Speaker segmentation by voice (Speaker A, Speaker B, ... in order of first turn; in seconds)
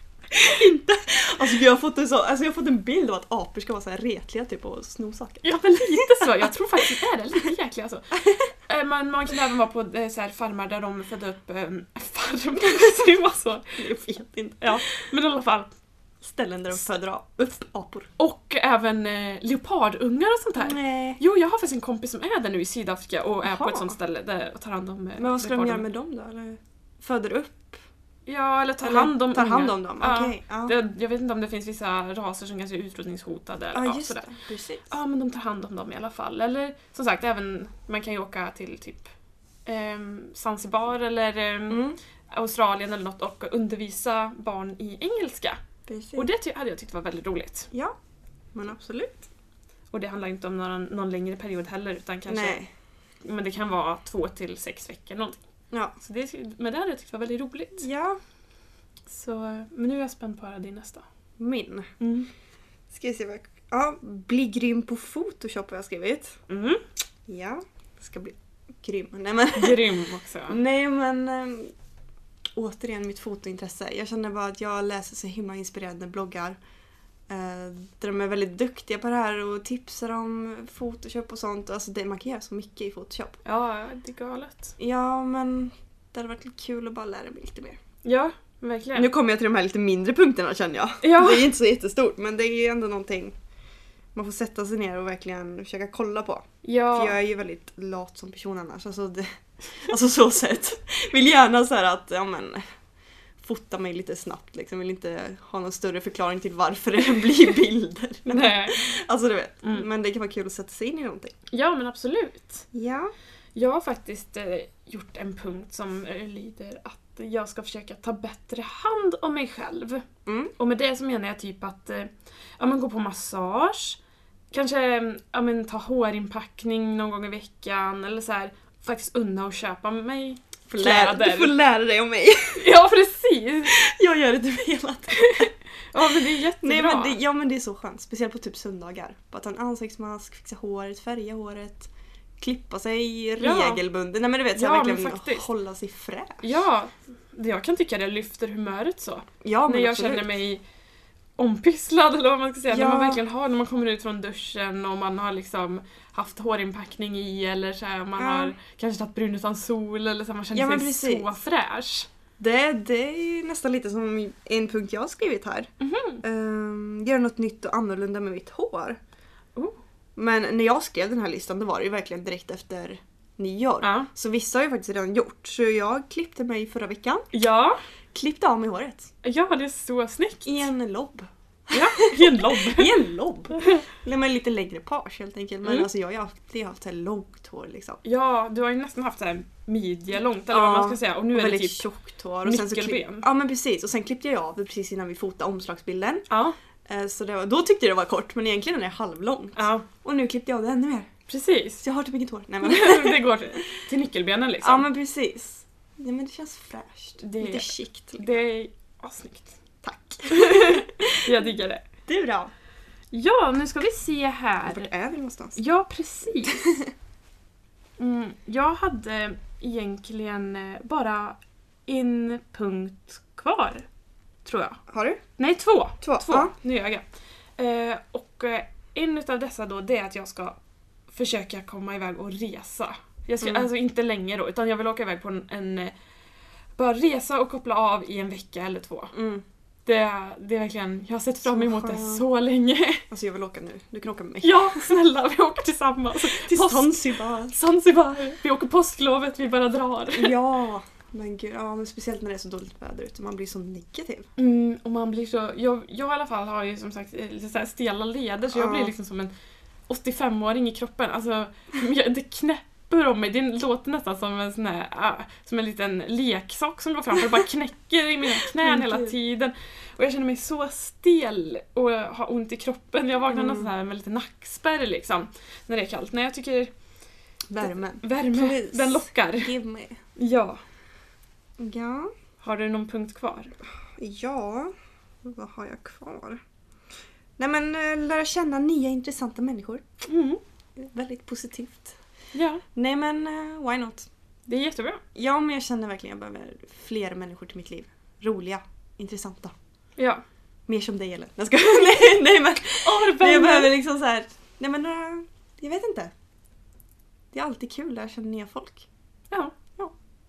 Speaker A: 0.4-6.5, 13.8-14.8, 16.2-18.1, 20.6-21.2, 23.4-23.9, 25.2-27.8, 28.8-30.7, 33.7-34.9, 41.7-42.0, 45.9-46.3, 48.5-49.3, 52.3-52.7, 57.8-58.2, 61.4-61.9, 62.9-66.4, 67.2-70.0, 70.5-71.7, 72.5-76.6, 77.3-83.4, 84.8-87.8, 88.9-93.3, 94.1-102.6, 103.4-111.3, 112.7-113.1, 120.2-120.5, 130.7-132.6, 133.7-135.5, 136.6-146.6, 149.4-150.3, 152.7-153.2, 158.2-158.6, 160.5-161.3, 162.4-165.7, 166.2-169.0, 170.2-177.3, 178.1-179.1, 180.4-188.0, 190.5-196.2, 196.9-201.1, 201.8-203.4, 204.6-208.2, 209.8-211.3, 212.1-212.5, 214.7-215.6, 216.4-216.9, 224.9-225.2, 226.0-226.5, 233.4-233.7, 239.1-239.4, 241.4-242.2, 243.1-244.9, 246.2-247.6, 250.1-254.3, 258.5-258.9, 268.4-269.1, 273.3-273.7, 277.5-280.0, 281.6-282.1, 283.8-286.4, 287.4-289.8, 290.8-292.0, 292.7-294.1, 295.1-299.5, 300.7-306.1, 307.3-308.9
Speaker B: 5.4-13.8, 14.6-15.7, 18.2-25.8, 28.3-34.2, 34.9-39.1, 39.6-45.6, 46.1-47.7, 49.9-52.6, 53.2-55.4, 56.0-57.9, 59.1-61.0, 62.0-62.3, 66.5-66.8, 69.5-70.6, 83.4-84.7, 88.0-89.1, 91.0-91.5, 96.6-97.2, 108.3-108.9, 111.5-112.7, 113.5-120.0, 120.6-124.0, 124.5-131.6, 132.5-133.8, 135.2-137.2, 143.4-143.8, 144.5-145.5, 146.4-150.6, 151.4-162.1, 165.8-166.2, 173.8-174.1, 177.3-177.8, 179.2-180.7, 181.7-183.0, 183.5-183.8, 188.0-191.8, 192.4-193.2, 196.3-196.6, 199.6-199.9, 201.3-201.8, 202.6-204.9, 207.2-209.6, 210.3-211.8, 213.1-214.9, 215.6-216.6, 218.0-223.8, 224.4-224.8, 225.4-227.0, 227.6-230.6, 231.1-235.9, 236.8-239.1, 239.8-243.0, 244.4-250.3, 254.4-259.3, 259.9-276.7, 277.6-279.5, 280.2-280.6, 282.4-283.5, 290.0-290.4, 292.3-292.6, 294.5-295.0, 300.0-300.2, 302.8-303.7